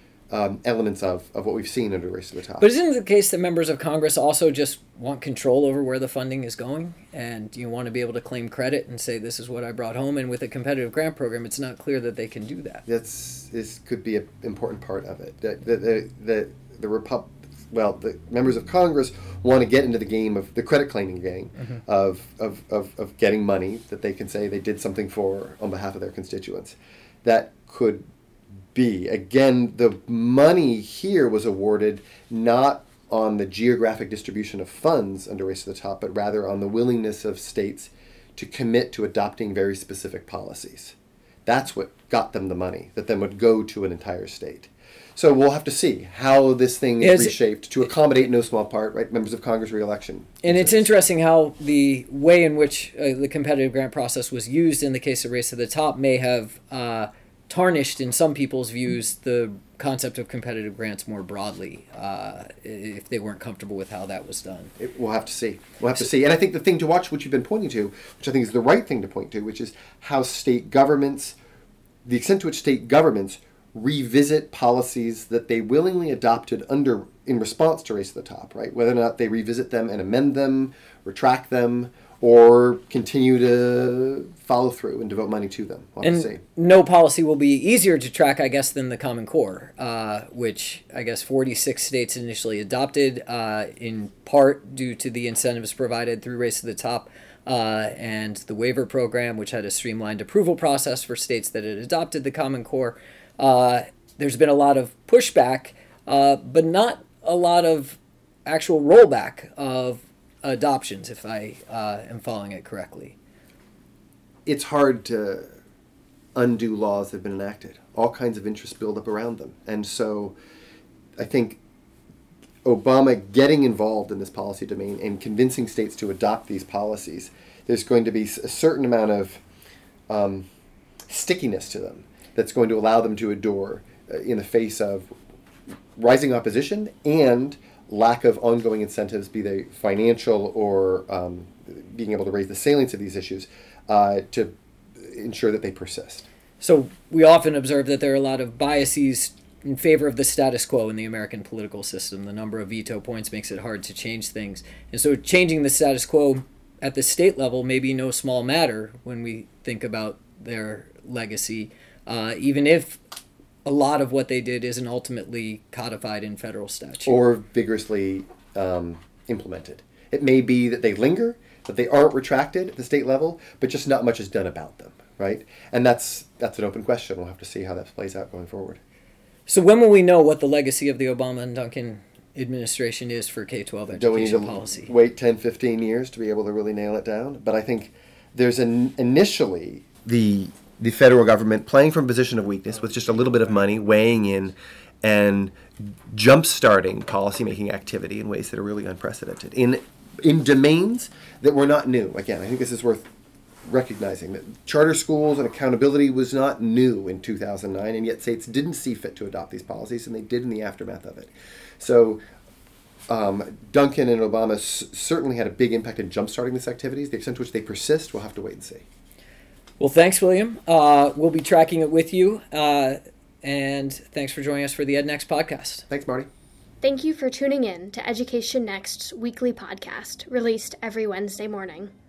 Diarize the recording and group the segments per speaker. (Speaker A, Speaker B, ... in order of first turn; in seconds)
Speaker A: 0.3-2.7, 12.8-28.0, 28.7-40.9, 41.5-50.9, 64.8-71.4, 72.0-86.4, 114.5-115.5, 116.3-120.4, 121.2-121.6, 122.6-129.4, 130.1-130.5, 131.1-135.1, 135.9-146.3, 167.1-178.8, 183.9-195.6, 196.1-203.1, 203.7-212.2, 213.1-218.8, 225.9-226.3
Speaker B: 2.6-12.8, 47.0-47.4, 50.4-64.7, 86.0-113.2, 146.6-163.0, 163.7-167.1, 179.5-184.9, 219.8-225.8
Speaker C: 226.8-231.9